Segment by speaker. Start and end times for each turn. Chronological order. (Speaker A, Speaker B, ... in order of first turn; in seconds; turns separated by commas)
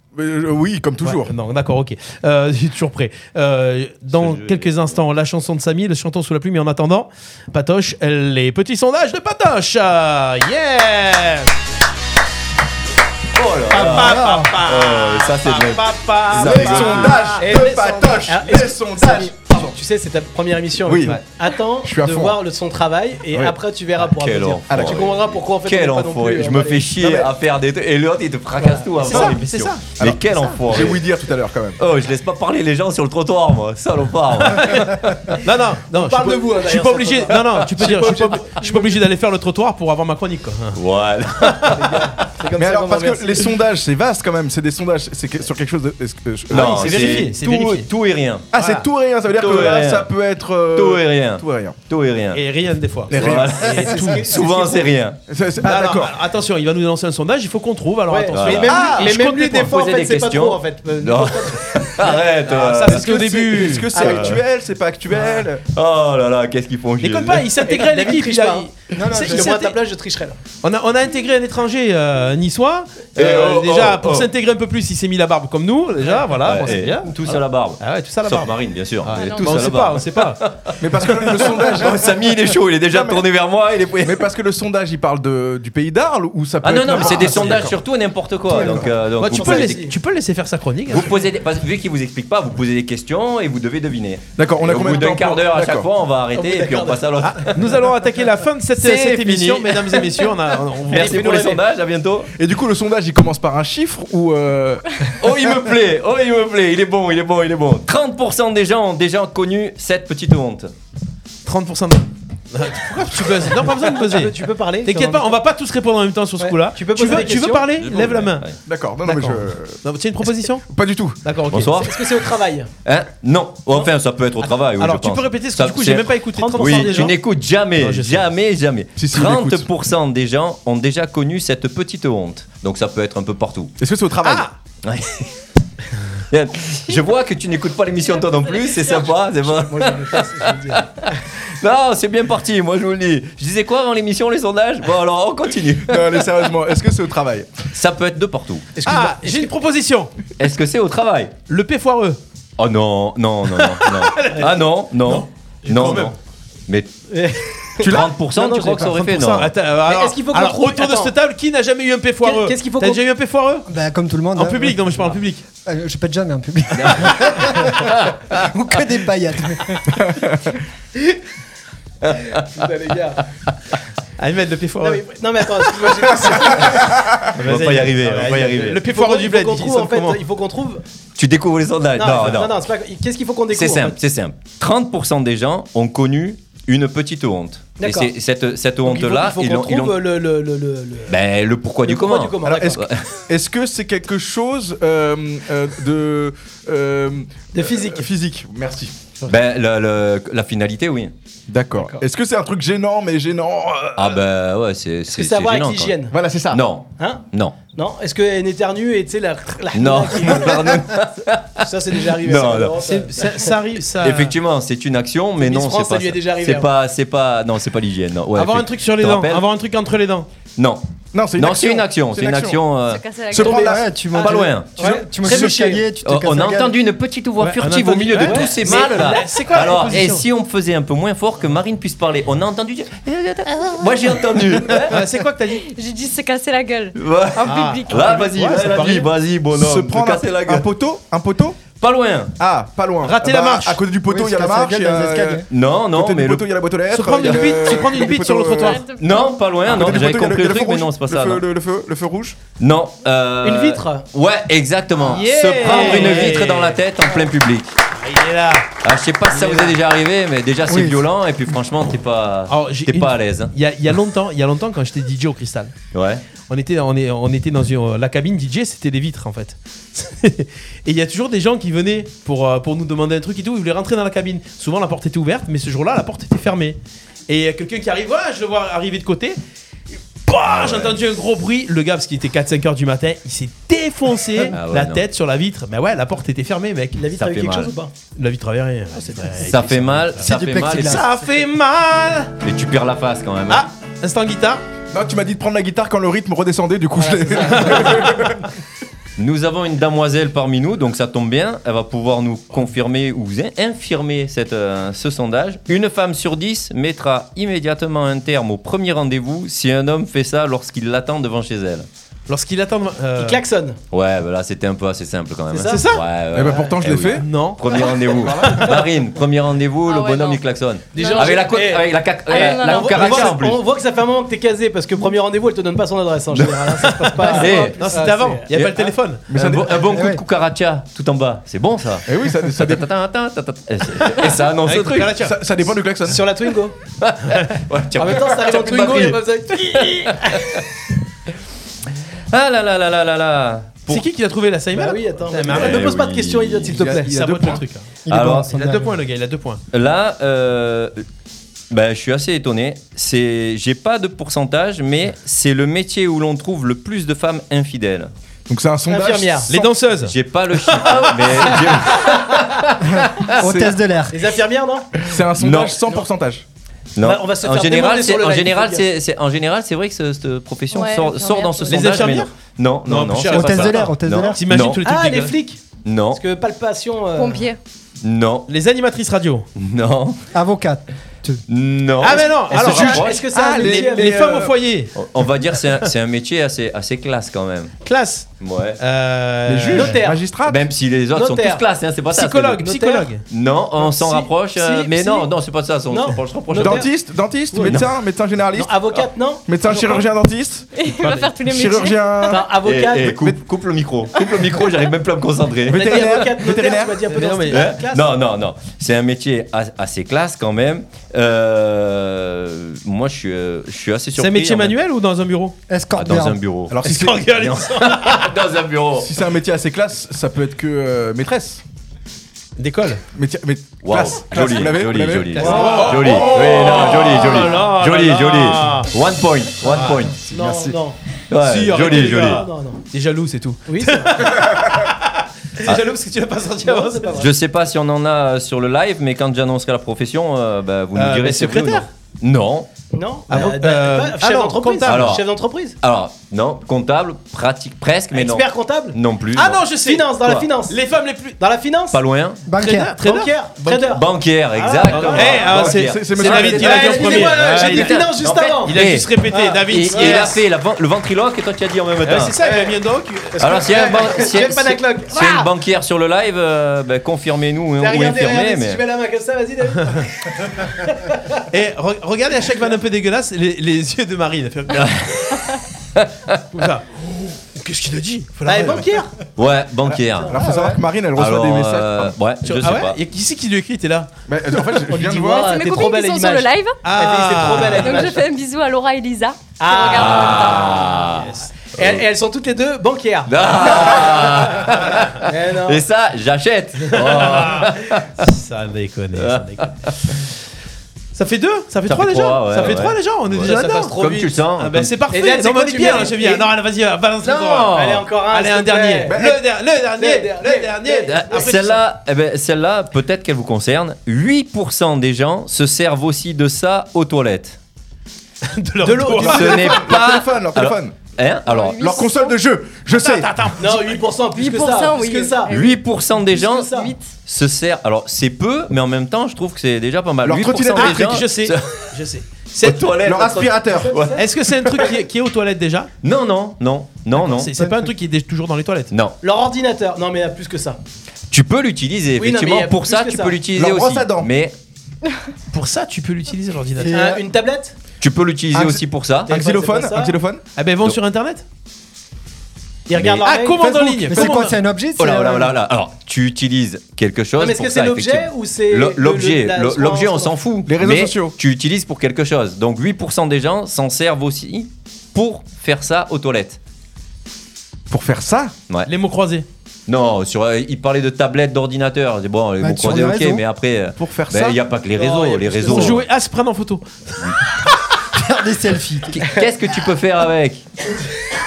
Speaker A: 0.1-1.3, Speaker B: 1.0-11.5, Speaker C: 4.2-4.8, Speaker C: 13.3-17.3, Speaker B: 13.7-17.8, Speaker D: 13.7-14.5, Speaker A: 16.4-19.7, Speaker E: 16.6-27.3, Speaker A: 20.9-21.2, Speaker A: 21.8-22.4, Speaker C: 24.0-31.1, Speaker A: 24.7-25.2, Speaker E: 28.6-29.3, Speaker B: 29.0-30.0, Speaker A: 30.0-31.8, Speaker C: 31.8-34.9, Speaker B: 34.5-40.8, Speaker E: 36.0-37.3, Speaker A: 37.8-38.5, Speaker C: 40.8-41.7, Speaker B: 41.4-41.8, Speaker E: 41.7-43.6, Speaker A: 42.6-47.2, Speaker C: 46.5-48.5, Speaker B: 46.5-47.9, Speaker A: 48.5-51.8, Speaker B: 48.5-48.8, Speaker C: 49.3-50.1, Speaker C: 50.7-52.4, Speaker B: 52.3-54.2, Speaker A: 53.1-53.6, Speaker C: 53.1-55.2, Speaker E: 53.8-54.9, Speaker A: 55.3-56.1, Speaker B: 55.6-59.7, Speaker E: 58.1-62.1, Speaker C: 58.3-58.9, Speaker A: 58.7-59.1, Speaker C: 59.5-63.1, Speaker B: 62.5-64.1, Speaker A: 62.9-65.6, Speaker E: 63.9-64.4, Speaker C: 64.0-64.4, Speaker C: 65.7-67.6, Speaker B: 67.0-69.7, Speaker E: 67.6-70.4, Speaker D: 68.9-69.7, Speaker B: 70.6-80.4, Speaker C: 73.2-74.3, Speaker C: 76.4-84.3, Speaker F: 79.2-79.6, Speaker A: 80.8-82.2, Speaker A: 82.9-83.2, Speaker A: 84.0-87.8, Speaker C: 86.6-89.8, Speaker B: 87.1-87.7, Speaker B: 89.2-91.1, Speaker E: 89.3-89.9, Speaker C: 90.9-97.5, Speaker A: 94.4-95.9, Speaker E: 96.4-97.3, Speaker B: 97.2-101.5, Speaker C: 98.8-100.1, Speaker C: 100.9-102.3, Speaker E: 101.1-101.6, Speaker A: 102.4-104.8, Speaker C: 105.2-110.7, Speaker B: 111.5-118.5, Speaker E: 113.9-115.3, Speaker E: 116.4-117.8, Speaker C: 117.8-118.6, Speaker A: 118.7-119.8, Speaker B: 119.0-120.7, Speaker A: 120.7-121.2, Speaker B: 121.2-121.8, Speaker C: 121.5-122.0, Speaker E: 121.8-122.7, Speaker C: 122.8-133.7, Speaker B: 124.8-127.2, Speaker E: 126.4-127.1, Speaker B: 127.8-128.3, Speaker A: 129.0-129.7, Speaker A: 133.8-134.5, Speaker B: 134.2-134.5, Speaker C: 134.8-135.3, Speaker C: 136.3-146.3, Speaker F: 138.6-138.9, Speaker E: 139.4-140.9, Speaker A: 145.9-147.5, Speaker C: 147.7-148.7, Speaker E: 148.8-149.5, Speaker B: 148.8-150.1, Speaker C: 150.4-151.3, Speaker B: 151.5-152.2, Speaker C: 152.6-156.2, Speaker B: 153.6-156.1, Speaker E: 157.1-158.9, Speaker C: 157.8-159.5, Speaker A: 157.8-158.1, Speaker B: 158.8-163.7, Speaker E: 159.9-161.1, Speaker E: 162.2-163.0, Speaker D: 163.7-164.9, Speaker B: 164.3-165.4, Speaker D: 165.7-170.0, Speaker C: 166.7-168.2, Speaker A: 170.1-170.4, Speaker C: 172.0-172.4, Speaker E: 172.3-173.2, Speaker B: 174.2-175.0, Speaker E: 174.8-176.9, Speaker B: 177.3-180.2, Speaker C: 177.4-178.8, Speaker E: 178.8-180.8, Speaker C: 181.2-182.6, Speaker E: 182.0-183.9, Speaker C: 183.5-190.0, Speaker E: 187.8-188.1, Speaker E: 188.8-191.2, Speaker C: 191.1-193.1, Speaker E: 191.8-192.8, Speaker A: 192.4-198.9, Speaker E: 197.5-198.1, Speaker C: 199.3-201.1, Speaker A: 201.5-204.2, Speaker E: 201.8-202.0, Speaker C: 204.0-206.0, Speaker E: 205.1-206.2, Speaker A: 206.1-206.6, Speaker C: 206.5-207.6, Speaker E: 207.8-211.0, Speaker C: 209.7-212.8, Speaker E: 211.6-213.5, Speaker B: 212.8-214.3, Speaker C: 214.0-219.4, Speaker E: 215.4-216.7, Speaker B: 218.4-220.3, Speaker C: 220.6-220.8, Speaker A: 221.1-222.6, Speaker C: 221.4-223.0, Speaker F: 222.9-223.8, Speaker A: 223.3-223.8, Speaker E: 223.4-225.8, Speaker D: 223.5-226.8, Speaker C: 224.1-224.8, Speaker C: 226.0-235.0, Speaker B: 227.4-230.3, Speaker E: 228.2-229.7, Speaker E: 234.7-235.0, Speaker B: 234.9-235.6, Speaker F: 235.6-238.6, Speaker C: 237.0-240.7, Speaker B: 237.4-239.1, Speaker A: 239.5-241.6, Speaker C: 241.8-242.3, Speaker A: 242.4-248.8, Speaker B: 243.0-243.8, Speaker D: 244.1-245.5, Speaker C: 245.5-246.5, Speaker B: 246.9-248.8, Speaker F: 248.6-249.4, Speaker C: 249.0-251.5, Speaker A: 249.7-252.4, Speaker C: 252.6-257.7, Speaker E: 253.4-254.1, Speaker B: 255.0-256.8, Speaker E: 255.7-256.3, Speaker B: 258.0-258.7, Speaker C: 258.8-263.5, Speaker B: 259.3-259.8, Speaker D: 260.7-261.0, Speaker B: 262.5-265.7, Speaker C: 265.9-266.2, Speaker B: 266.5-276.8, Speaker B: 277.3-279.4, Speaker B: 280.3-287.0, Speaker C: 280.5-280.9, Speaker C: 284.5-285.0, Speaker E: 286.9-287.9, Speaker C: 287.2-287.7, Speaker B: 288.1-292.3, Speaker E: 289.0-289.5, Speaker C: 289.5-291.1, Speaker D: 290.2-291.1, Speaker C: 292.4-293.7, Speaker B: 293.5-294.6, Speaker A: 294.9-298.4, Speaker E: 296.9-298.3, Speaker B: 297.6-297.9, Speaker C: 299.2-311.9, Speaker B: 312.3-313.4, Speaker E: 313.2-313.8, Speaker C: 313.9-323.6, Speaker E: 315.5-315.9, Speaker B: 315.7-316.0, Speaker A: 316.3-317.2, Speaker B: 317.2-317.6, Speaker A: 318.2-318.7, Speaker F: 319.9-320.4, Speaker F: 320.9-321.3, Speaker E: 320.9-328.5, Speaker F: 322.3-323.0, Speaker C: 326.3-327.8, Speaker B: 327.2-329.2, Speaker C: 328.5-335.2, Speaker A: 329.3-329.9, Speaker D: 329.9-330.2, Speaker A: 332.1-332.9, Speaker B: 334.6-335.4, Speaker A: 335.2-336.2, Speaker E: 336.1-336.8, Speaker C: 337.0-340.6, Speaker E: 338.0-340.6, Speaker A: 338.6-339.1, Speaker C: 342.3-344.1, Speaker B: 343.9-345.9, Speaker E: 344.7-347.2, Speaker C: 345.5-346.8, Speaker A: 346.7-347.6, Speaker B: 346.8-348.0, Speaker D: 348.1-349.0, Speaker C: 348.1-348.5, Speaker B: 348.5-349.6, Speaker C: 349.7-351.0, Speaker C: 351.7-358.1, Speaker A: 358.5-359.7, Speaker E: 358.9-359.5, Speaker B: 359.5-360.1, Speaker C: 360.1-363.3, Speaker E: 360.8-362.2, Speaker D: 362.8-364.2, Speaker A: 363.4-363.8, Speaker E: 364.1-365.1, Speaker A: 365.0-366.5, Speaker C: 365.4-365.8, Speaker C: 367.0-374.8, Speaker E: 367.0-368.9, Speaker F: 370.7-372.1, Speaker B: 371.7-372.3, Speaker B: 372.9-375.4, Speaker D: 373.2-374.4, Speaker E: 374.8-377.5, Speaker C: 375.9-376.2, Speaker F: 377.2-377.6, Speaker C: 378.0-378.5, Speaker B: 378.5-379.5, Speaker C: 379.6-380.2, Speaker D: 380.3-381.4, Speaker C: 381.5-383.2, Speaker B: 382.0-384.9, Speaker E: 382.5-384.3, Speaker A: 382.6-384.5, Speaker C: 385.0-387.7, Speaker B: 387.9-388.3, Speaker C: 388.4-388.8, Speaker B: 388.8-390.0, Speaker A: 389.5-390.6, Speaker E: 389.7-390.2, Speaker C: 390.4-392.6, Speaker E: 391.1-391.6, Speaker B: 392.1-393.2, Speaker E: 392.6-393.1, Speaker C: 393.3-396.9, Speaker E: 393.8-395.3, Speaker E: 395.9-396.9, Speaker A: 396.6-398.8, Speaker E: 397.5-397.9, Speaker E: 398.5-400.1, Speaker A: 399.5-400.7, Speaker F: 400.8-402.4, Speaker A: 401.2-402.4, Speaker E: 402.2-403.2, Speaker C: 402.5-406.1, Speaker A: 405.7-407.0, Speaker E: 405.7-408.2, Speaker B: 407.1-407.7, Speaker C: 407.5-414.8, Speaker B: 414.2-415.6, Speaker D: 415.7-416.4, Speaker C: 416.0-419.2, Speaker A: 416.7-417.3, Speaker B: 416.8-418.3, Speaker A: 419.0-421.6, Speaker B: 422.6-423.0, Speaker A: 423.1-427.3, Speaker C: 423.8-430.2, Speaker B: 425.4-428.9, Speaker E: 425.4-425.9, Speaker B: 429.6-430.0, Speaker E: 430.3-431.0, Speaker A: 430.3-430.7, Speaker C: 431.3-432.4, Speaker B: 431.4-437.2, Speaker E: 431.8-432.8, Speaker E: 433.7-434.4, Speaker E: 436.6-437.3, Speaker C: 437.2-442.7, Speaker B: 441.0-441.9, Speaker E: 442.9-445.8, Speaker B: 443.3-445.1, Speaker C: 444.9-445.2, Speaker C: 445.8-449.6, Speaker E: 448.1-449.0, Speaker B: 449.4-450.1, Speaker E: 449.8-450.8, Speaker B: 450.7-451.4, Speaker E: 451.4-452.0, Speaker C: 451.9-452.4, Speaker D: 452.5-453.0, Speaker B: 452.6-453.9, Speaker E: 453.0-455.5, Speaker C: 453.8-459.1, Speaker B: 454.9-460.4, Speaker A: 455.4-457.7, Speaker E: 456.5-460.4, Speaker C: 459.7-462.4, Speaker B: 462.0-463.9, Speaker E: 462.4-462.8, Speaker E: 463.3-465.5, Speaker C: 463.4-468.8, Speaker E: 467.8-471.4, Speaker B: 471.5-475.3, Speaker C: 474.7-475.2, Speaker C: 476.0-476.3, Speaker B: 476.5-479.0, Speaker E: 478.5-479.1, Speaker C: 479.4-480.4, Speaker A: 480.3-482.1, Speaker D: 480.4-480.8, Speaker C: 481.1-483.0, Speaker B: 482.4-484.1, Speaker A: 484.3-485.6, Speaker E: 484.8-488.2, Speaker F: 485.3-486.8, Speaker B: 486.8-488.1, Speaker F: 487.7-490.8, Speaker E: 489.6-495.8, Speaker C: 489.9-491.3, Speaker B: 490.3-491.5, Speaker C: 493.3-498.1, Speaker B: 496.9-499.7, Speaker C: 499.2-499.9, Speaker B: 501.1-504.0, Speaker C: 501.9-504.9, Speaker E: 503.4-504.3, Speaker B: 504.6-511.8, Speaker E: 505.1-506.5, Speaker C: 507.3-508.0, Speaker E: 507.6-509.4, Speaker A: 509.1-509.4, Speaker E: 510.0-511.7, Speaker C: 511.1-517.6, Speaker B: 518.5-519.6, Speaker E: 518.8-519.8, Speaker A: 519.2-521.0, Speaker C: 519.2-521.9, Speaker F: 521.5-522.3, Speaker A: 521.7-523.3, Speaker B: 522.9-524.0, Speaker E: 523.6-526.9, Speaker F: 524.4-525.8, Speaker C: 525.5-531.7, Speaker F: 526.7-527.1, Speaker A: 530.2-531.2, Speaker B: 530.8-532.9, Speaker C: 532.6-534.2, Speaker A: 532.6-534.0, Speaker E: 533.1-534.2, Speaker B: 534.2-535.9, Speaker C: 536.0-537.5, Speaker B: 537.2-538.9, Speaker D: 537.6-537.9, Speaker C: 538.9-539.2, Speaker E: 539.2-540.8, Speaker C: 541.3-544.5, Speaker E: 542.2-543.4, Speaker A: 543.5-544.3, Speaker B: 545.5-547.1, Speaker D: 546.8-547.2, Speaker E: 546.9-547.8, Speaker C: 548.0-549.3, Speaker A: 548.5-550.4, Speaker E: 549.3-550.2, Speaker B: 550.6-551.4, Speaker E: 552.9-553.8, Speaker C: 552.9-553.2, Speaker B: 553.0-554.6, Speaker D: 553.6-555.5, Speaker C: 555.0-566.6, Speaker E: 557.4-560.4, Speaker A: 560.7-561.4, Speaker A: 567.9-568.5, Speaker B: 568.9-569.5, Speaker C: 569.9-576.0, Speaker D: 572.6-573.4, Speaker A: 574.0-574.6, Speaker E: 575.0-576.0, Speaker B: 575.7-577.3, Speaker D: 578.1-579.3, Speaker C: 579.1-580.6